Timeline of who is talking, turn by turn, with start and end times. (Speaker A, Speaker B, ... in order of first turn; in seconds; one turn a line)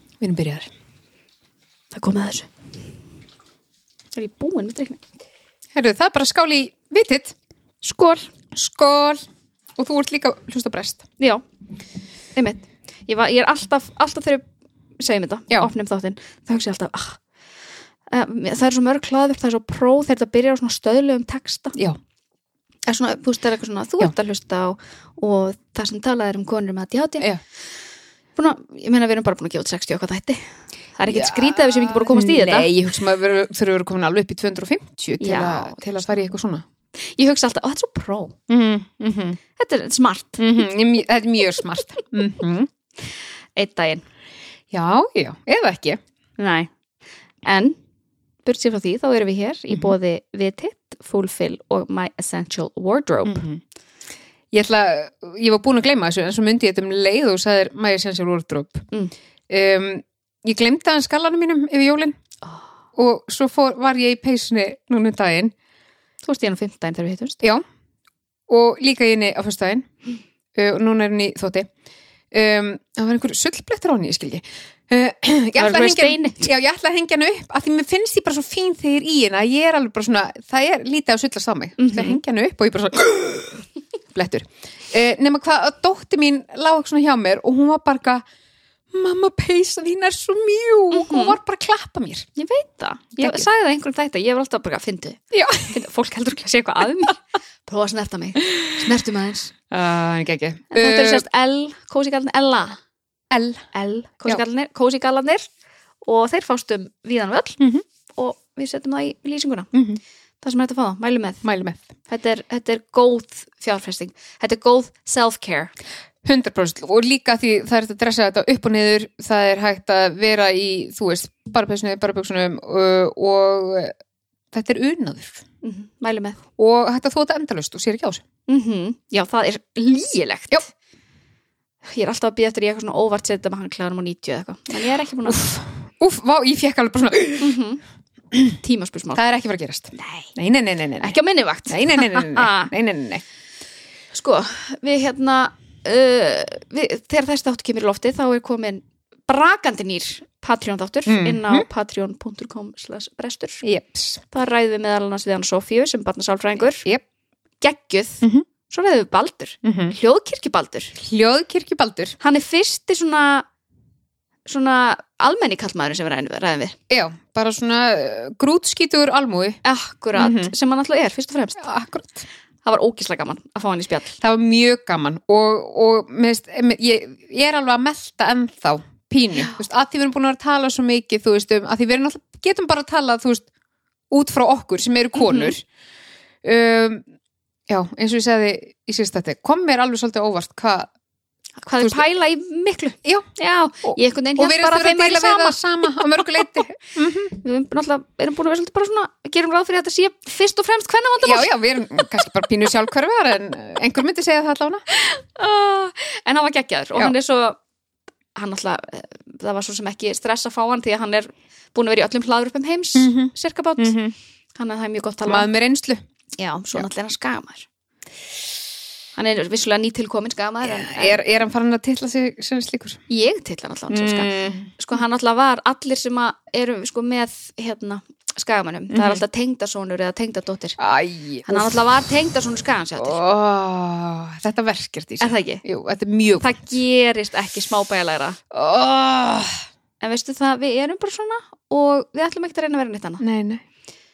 Speaker A: 0.2-0.7
Speaker B: 1.9-2.5
Speaker B: 4.2-5.0
Speaker A: 5.8-7.3
Speaker B: 7.8-8.3
Speaker A: 8.5-9.2
Speaker A: 9.8-11.0
Speaker B: 12.3-14.4
Speaker B: 15.0-17.2
Speaker B: 18.1-21.8
Speaker B: 22.9-27.3
Speaker B: 28.4-30.4
Speaker B: 31.0-32.7
Speaker A: 31.1-36.6
Speaker B: 35.2-35.8
Speaker B: 37.0-38.4
Speaker A: 38.5-39.4
Speaker B: 39.6-40.5
Speaker A: 40.4-42.7
Speaker B: 43.6-44.0
Speaker A: 44.7-46.0
Speaker B: 46.4-46.7
Speaker B: 47.4-47.8
Speaker B: 48.5-53.4
Speaker A: 53.3-53.6
Speaker A: 54.5-58.9
Speaker A: 59.5-62.2
Speaker A: 63.0-65.5
Speaker B: 66.2-67.4
Speaker A: 68.5-69.9
Speaker A: 70.5-71.7
Speaker A: 72.3-88.2
Speaker B: 75.5-76.5
Speaker B: 81.8-82.2
Speaker A: 88.9-92.3
Speaker B: 90.9-91.4
Speaker B: 92.4-99.5
Speaker A: 93.2-93.5
Speaker A: 95.3-95.8
Speaker A: 98.4-99.0
Speaker A: 99.7-101.2
Speaker B: 100.7-102.8
Speaker A: 103.3-103.7
Speaker B: 103.7-105.5
Speaker B: 106.0-109.7
Speaker A: 109.7-110.0
Speaker B: 110.4-111.4
Speaker A: 111.4-111.8
Speaker B: 112.1-115.7
Speaker A: 116.2-123.9
Speaker A: 124.5-125.4
Speaker B: 125.6-126.4
Speaker A: 126.6-128.2
Speaker B: 128.5-130.7
Speaker B: 131.8-135.4
Speaker A: 135.2-137.6
Speaker B: 137.4-137.8
Speaker B: 138.6-139.2
Speaker A: 139.2-143.2
Speaker B: 140.0-140.3
Speaker B: 141.0-142.7
Speaker B: 144.1-153.6
Speaker A: 151.1-151.7
Speaker A: 153.6-154.2
Speaker B: 154.3-156.8
Speaker B: 157.6-161.0
Speaker A: 159.6-159.9
Speaker A: 161.0-162.2
Speaker B: 162.2-163.5
Speaker B: 164.5-166.8
Speaker A: 166.9-169.6
Speaker B: 169.6-171.7
Speaker A: 170.2-170.5
Speaker A: 171.6-172.2
Speaker B: 172.7-174.2
Speaker A: 174.2-183.5
Speaker A: 184.1-185.6
Speaker B: 185.2-185.5
Speaker A: 186.4-187.0
Speaker A: 187.7-190.9
Speaker B: 191.6-196.4
Speaker A: 193.8-197.3
Speaker B: 197.3-201.5
Speaker A: 201.2-204.8
Speaker B: 204.9-207.6
Speaker B: 208.3-214.0
Speaker A: 213.0-214.2
Speaker B: 214.6-215.5
Speaker A: 215.3-216.0
Speaker B: 216.4-217.7
Speaker B: 219.2-221.2
Speaker A: 220.6-223.0
Speaker B: 223.1-230.8
Speaker A: 223.9-224.7
Speaker A: 228.9-229.2
Speaker A: 230.8-231.8
Speaker B: 231.5-233.2
Speaker A: 233.0-236.6
Speaker B: 235.2-235.6
Speaker B: 236.4-238.4
Speaker A: 238.5-239.7
Speaker B: 240.0-243.2
Speaker A: 243.2-243.6